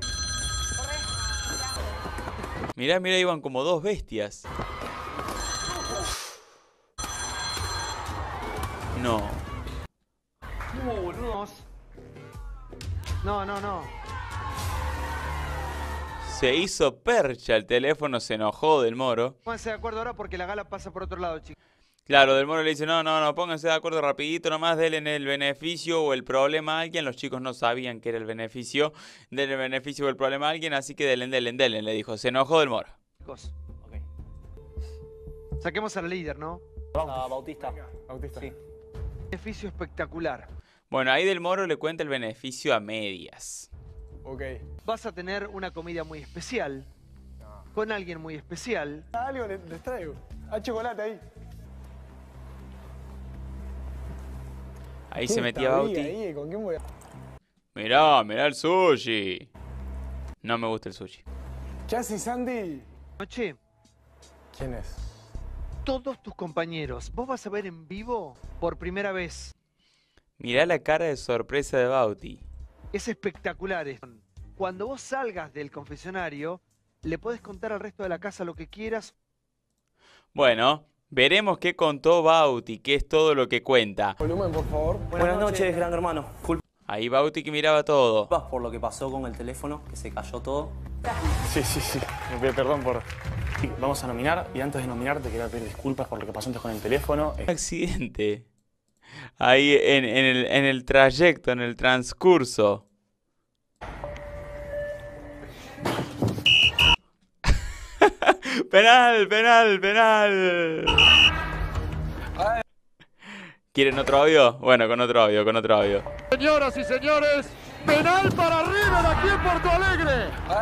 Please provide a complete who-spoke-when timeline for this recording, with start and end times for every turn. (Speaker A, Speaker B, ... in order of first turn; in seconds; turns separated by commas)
Speaker A: 2.8-4.5, Speaker A: 8.9-9.4, Speaker B: 10.8-11.6, Speaker B: 13.2-13.9, Speaker A: 16.2-19.4, Speaker B: 19.4-21.5, Speaker A: 22.1-32.9, Speaker B: 33.2-33.5, Speaker B: 35.6-36.6, Speaker C: 37.0-37.2, Speaker D: 37.1-37.8, Speaker C: 38.1-38.5, Speaker B: 39.3-40.5, Speaker A: 40.9-43.7, Speaker E: 44.2-44.6, Speaker B: 44.8-46.9, Speaker B: 47.7-49.0, Speaker E: 49.1-51.2, Speaker A: 55.1-56.1, Speaker E: 55.2-56.8, Speaker A: 57.7-59.5, Speaker A: 60.4-61.2, Speaker E: 61.9-62.8, Speaker B: 63.2-63.6, Speaker E: 64.5-65.0, Speaker B: 65.8-69.5, Speaker A: 70.4-72.4, Speaker B: 72.9-79.1, Speaker A: 80.3-84.2, Speaker E: 84.2-85.2, Speaker D: 85.1-86.6, Speaker A: 86.9-88.3, Speaker D: 88.3-90.8, Speaker C: 91.5-93.0, Speaker C: 93.6-97.5, Speaker A: 97.5-98.5, Speaker A: 99.4-102.8, Speaker A: 108.0-111.1, Speaker A: 113.7-116.0, Speaker F: 116.3-120.3